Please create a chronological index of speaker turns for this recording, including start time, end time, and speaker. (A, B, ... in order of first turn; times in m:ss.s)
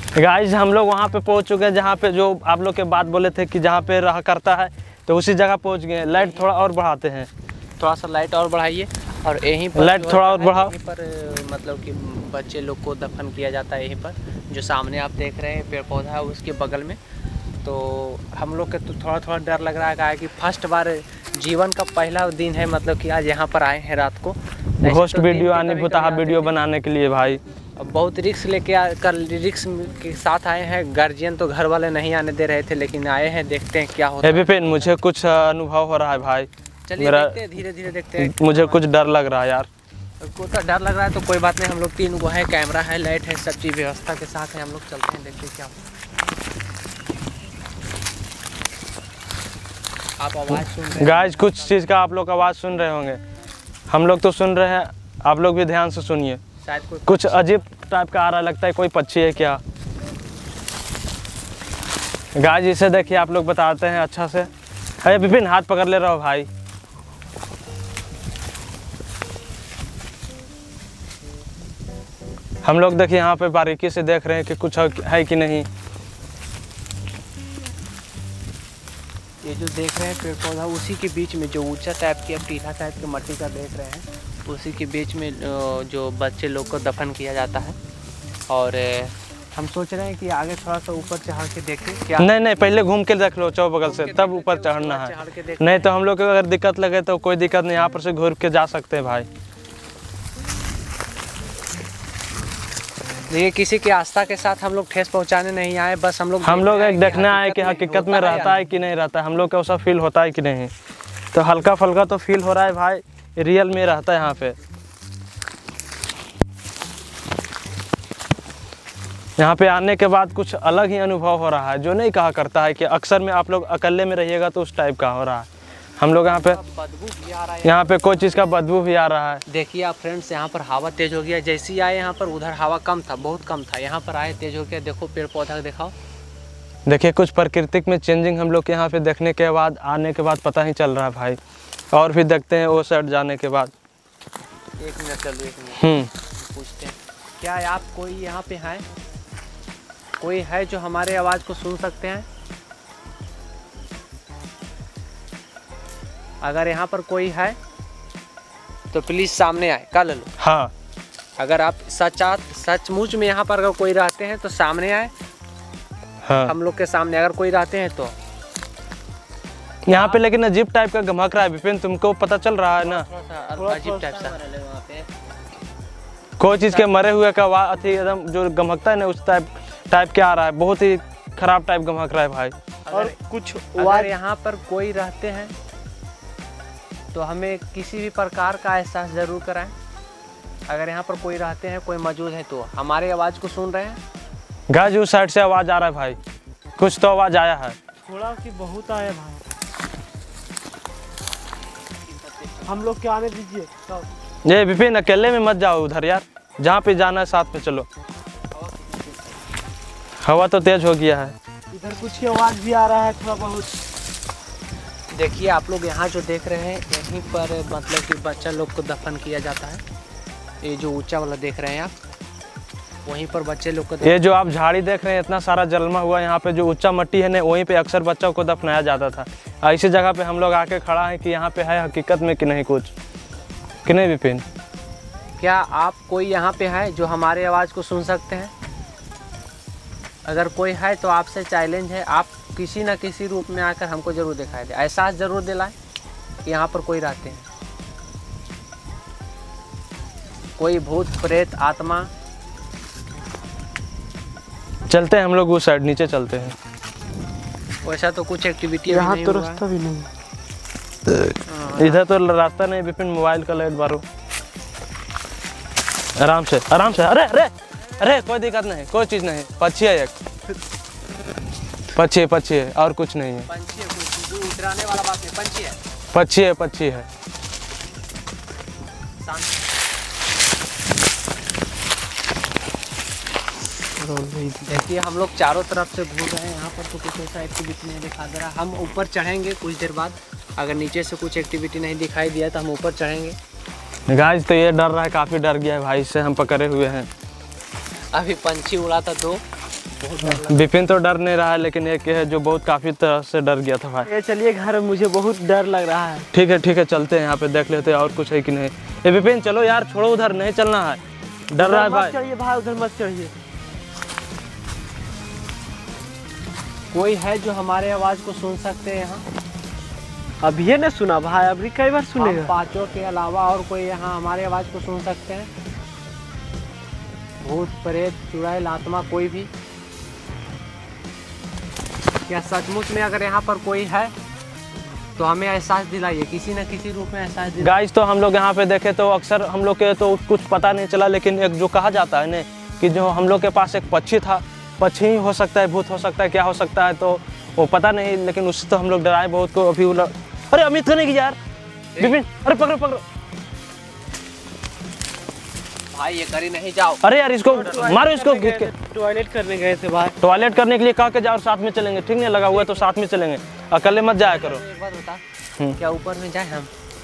0:00.1-0:07.3 A
0:06.1-0:06.4 B
0:07.8-0:17.0 B
0:09.7-0:10.7 A
0:17.6-0:26.6 B
0:24.8-0:27.4 A
0:27.8-0:34.9 B
0:34.2-0:37.4 A
0:36.9-0:38.8 B
0:38.2-0:39.7 A
0:40.2-0:45.8 B
0:50.2-0:51.8 B
0:50.9-0:53.2 A
0:53.9-0:56.4 A
0:56.6-0:57.6 B
0:57.1-0:59.6 A
1:02.4-1:04.5 A
1:05.0-1:06.5 A
1:12.6-1:15.7 A
1:19.4-1:27.8 B
1:28.5-1:32.3 B
1:32.2-1:39.3 A
1:33.8-1:35.9 B
1:43.3-1:48.6 B
1:46.4-1:50.7 A
1:51.3-1:54.6 A
1:59.4-2:05.5 A
2:06.0-2:06.6 A
2:06.2-2:08.3 B
2:07.6-2:09.4 A
2:09.5-2:15.9 B
2:16.9-2:21.4 A
2:21.9-2:23.7 A
2:24.8-2:28.8 B
2:25.8-2:26.1 A
2:30.2-2:32.3 B
2:36.4-2:37.6 B
2:38.9-2:40.3 B
2:40.4-2:40.7 A
2:41.4-2:45.1 B
2:46.2-2:46.5 A
2:46.4-2:48.2 B
2:49.8-2:53.1 A
2:49.9-2:50.2 B
2:52.8-2:55.1 B
2:53.6-2:54.4 C
2:56.4-3:02.5 A
2:56.7-2:56.9 B
3:02.8-3:03.2 B
3:02.9-3:04.1 C
3:03.8-3:05.5 B
3:07.1-3:09.7 B
3:10.7-3:14.0 B
3:14.7-3:16.2 A
3:16.8-3:17.8 A
3:18.1-3:19.4 C
3:22.0-3:22.9 B
3:22.6-3:24.1 C
3:24.4-3:27.9 A
3:28.5-3:29.4 B
3:30.2-3:31.3 A
3:31.7-3:33.7 C
3:35.1-3:39.8 B
3:40.6-3:41.9 B
3:43.0-3:44.2 B
3:44.0-3:52.9 A
3:53.8-3:54.4 A
3:55.4-3:58.5 B
4:00.2-4:05.7 B
4:06.4-4:07.4 B
4:10.6-4:12.1 B
4:14.9-4:16.5 A
4:17.8-4:19.6 B
4:18.9-4:20.1 C
4:21.1-4:24.0 A
4:21.4-4:22.0 B
4:26.2-4:30.1 A
4:31.9-4:33.5 A
4:33.4-4:35.8 B
4:36.1-4:37.1 A
4:39.2-4:39.6 B
4:44.0-4:44.8 C
4:44.6-4:53.4 B
4:54.1-4:57.1 A
4:58.1-4:59.4 B
5:00.0-5:00.7 B
5:00.2-5:04.1 A
5:04.0-5:06.3 C
5:06.3-5:11.0 A
5:11.5-5:12.2 A
5:11.5-5:13.4 C
5:16.9-5:19.2 B
5:20.4-5:22.5 C
5:22.2-5:25.5 B
5:27.4-5:29.5 B
5:32.3-5:34.1 B
5:35.2-5:37.8 B
5:37.6-5:51.4 A
5:51.9-5:52.2 B
5:52.0-5:53.0 A
5:55.9-5:57.0 B
5:57.0-5:58.7 A
5:57.5-6:00.2 C
6:00.2-6:04.6 A
6:02.5-6:03.0 B
6:03.8-6:05.2 B
6:05.8-6:06.7 B